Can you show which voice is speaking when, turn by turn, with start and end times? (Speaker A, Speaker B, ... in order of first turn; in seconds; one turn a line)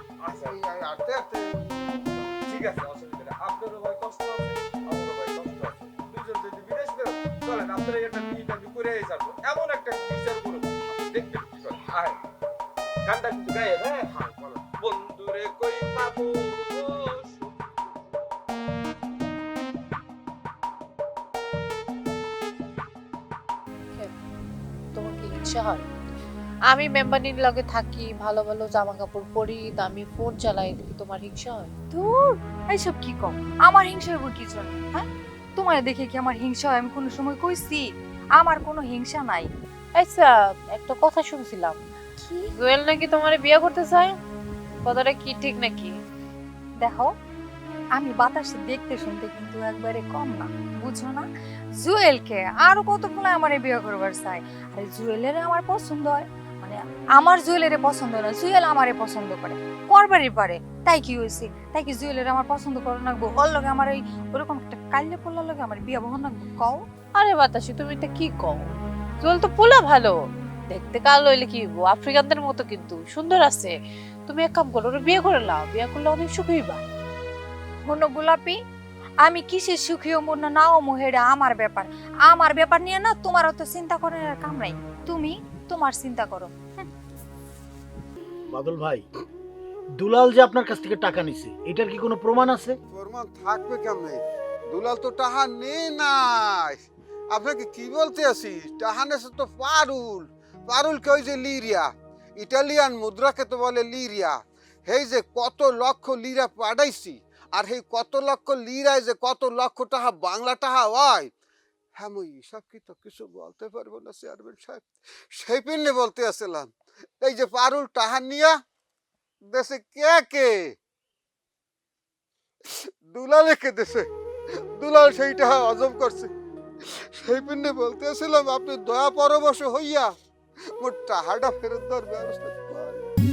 Speaker A: 0.3-2.4
Speaker B: 2.9-9.9
Speaker B: 11.1-12.1
Speaker B: 13.1-17.5
Speaker C: 24.9-25.9
Speaker C: 26.7-31.7
Speaker D: 31.9-39.5
Speaker C: 40.0-41.8
Speaker D: 42.2-42.5
Speaker C: 42.6-44.2
Speaker C: 44.9-45.9
Speaker D: 46.8-47.1
Speaker D: 47.9-66.8
Speaker C: 67.2-68.7
Speaker C: 69.2-70.2
Speaker C: 70.7-73.8
Speaker C: 74.3-76.8
Speaker D: 77.8-78.6
Speaker D: 79.2-86.9
Speaker E: 88.5-89.0
Speaker E: 90.0-92.8
Speaker A: 92.9-96.8
Speaker A: 97.3-111.3
Speaker A: 112.0-114.8
Speaker A: 115.4-118.6
Speaker A: 119.5-120.8
Speaker A: 123.1-124.1
Speaker A: 124.8-126.3
Speaker A: 127.2-130.1
Speaker A: 130.8-133.1